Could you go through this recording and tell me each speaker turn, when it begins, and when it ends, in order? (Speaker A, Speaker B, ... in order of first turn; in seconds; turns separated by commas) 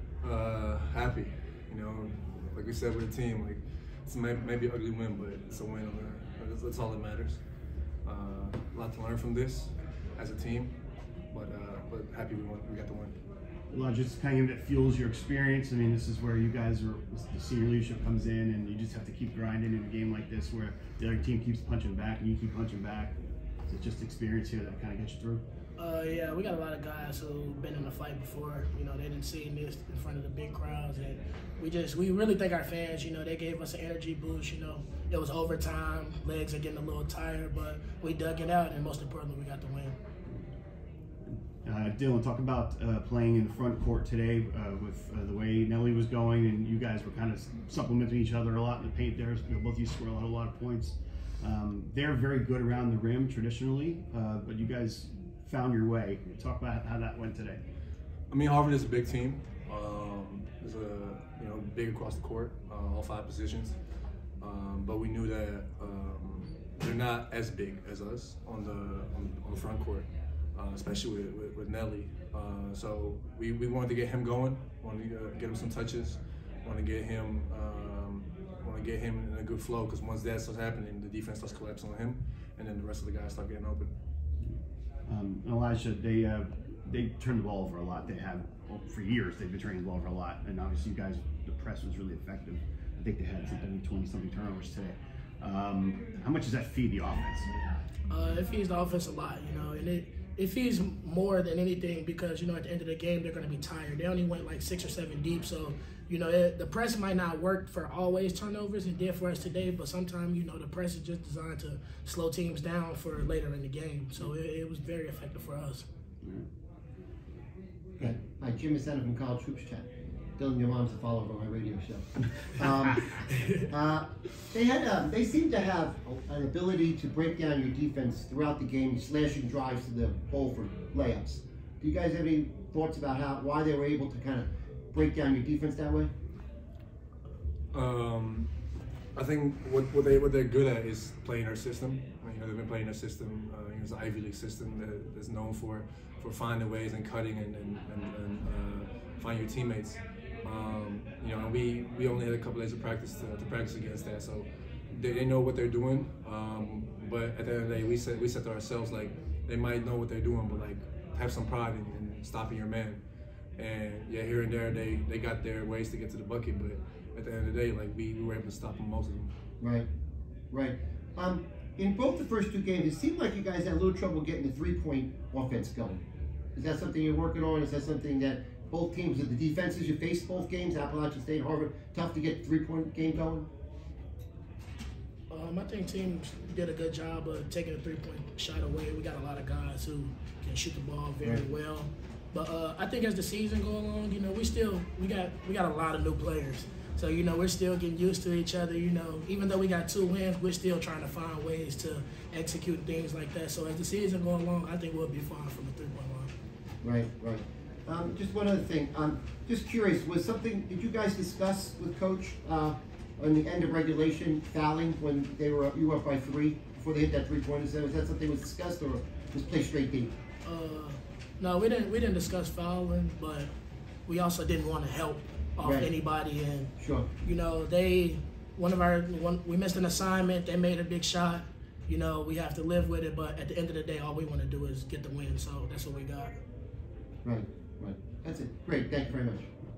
Speaker A: 0.2-7.4, Speaker A: 8.1-10.7, Speaker A: 11.3-13.2, Speaker B: 13.7-25.4, Speaker C: 25.8-40.0, Speaker B: 41.6-57.6, Speaker A: 58.3-63.8, Speaker A: 64.4-83.9, Speaker B: 85.1-97.5, Speaker C: 98.1-115.8, Speaker D: 118.0-136.1, Speaker A: 137.7-138.5, Speaker A: 139.2-163.0, Speaker A: 163.6-169.3, Speaker D: 169.6-169.9, Speaker D: 170.5-176.0, Speaker D: 176.6-183.5, Speaker C: 185.3-206.3, Speaker D: 206.8-220.1, Speaker C: 220.4-223.5, Speaker C: 224.1-236.4, Speaker D: 225.6-225.9, Speaker D: 226.8-227.1, Speaker D: 237.2-239.5